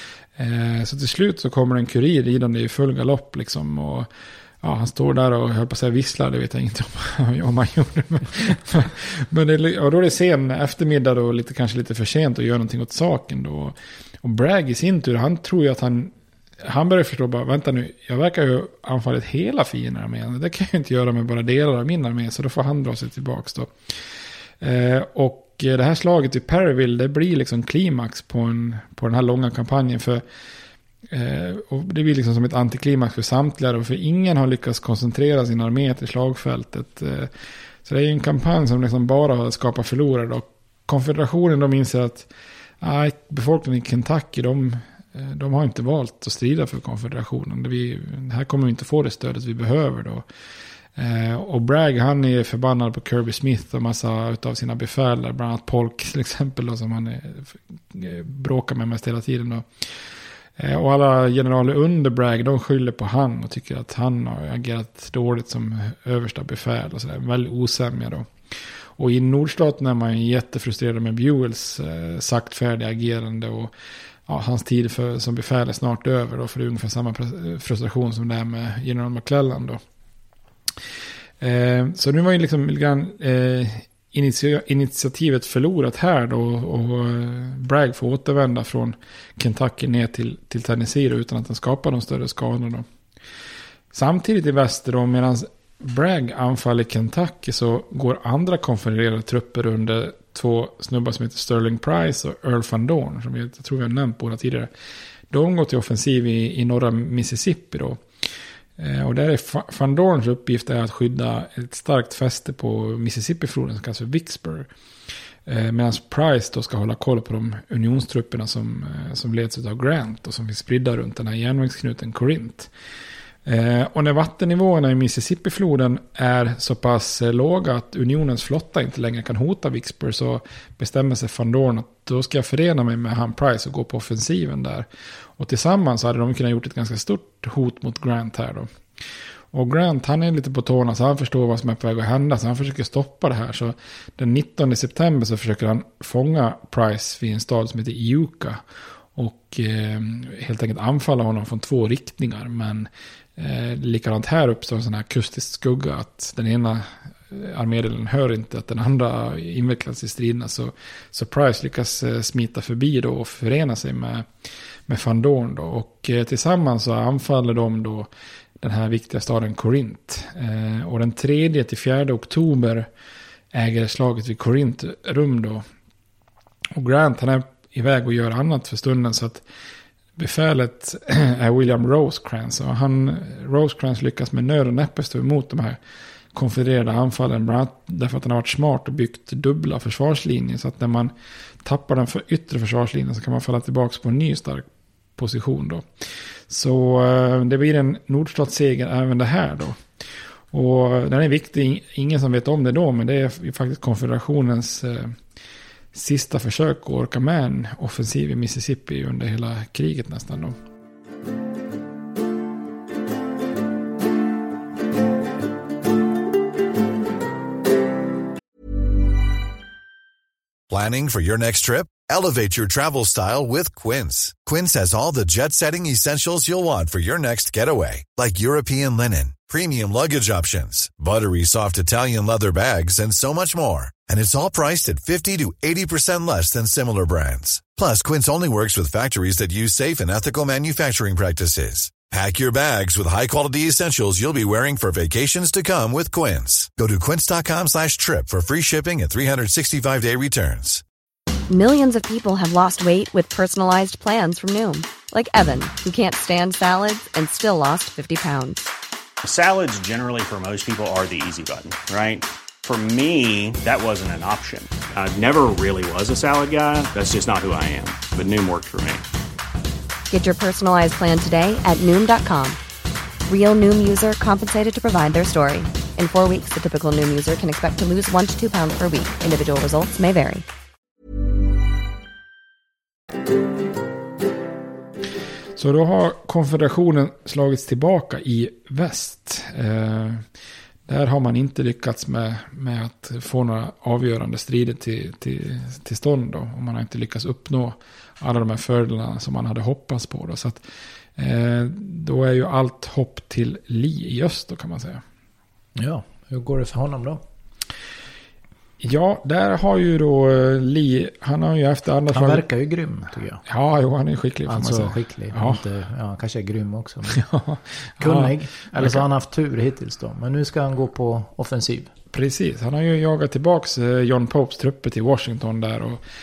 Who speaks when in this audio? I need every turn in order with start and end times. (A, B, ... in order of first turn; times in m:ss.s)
0:00.4-0:04.1 A
0:04.6-0:23.7 A
0:24.6-0:30.2 A
0:31.1-0:37.3 A
0:37.8-0:42.3 A
0:42.8-0:50.2 A
0:51.0-0:59.9 A
1:00.6-1:08.3 A
1:09.0-1:13.7 A
1:14.3-1:19.8 A
1:21.4-1:32.8 A
1:33.9-1:44.7 A
1:45.3-1:48.0 A
1:48.8-1:54.7 A
1:55.4-2:02.7 A
2:03.4-2:14.9 A
2:15.4-2:18.7 A
2:19.5-2:28.6 A
2:29.2-2:44.2 A
2:44.9-2:52.9 A
2:53.5-2:55.6 A
2:56.7-2:59.4 A
3:00.2-3:05.8 A
3:06.3-3:11.1 A
3:11.6-3:15.8 A
3:16.5-3:19.8 A
3:20.5-3:25.2 A
3:25.9-3:30.6 A
3:40.7-4:10.8 B
4:11.5-4:18.7 C
4:19.2-4:29.0 D
4:30.1-4:32.6 C
4:33.3-4:40.4 C
4:45.6-4:50.2 A
4:50.9-5:00.6 A
5:01.2-5:05.0 A
5:05.8-5:07.2 E
5:08.8-5:12.4 A
5:12.1-5:13.4 E
5:13.4-5:15.6 A
5:14.5-5:17.2 E
5:17.1-5:19.0 A
5:18.0-5:21.9 E
5:22.1-5:26.0 A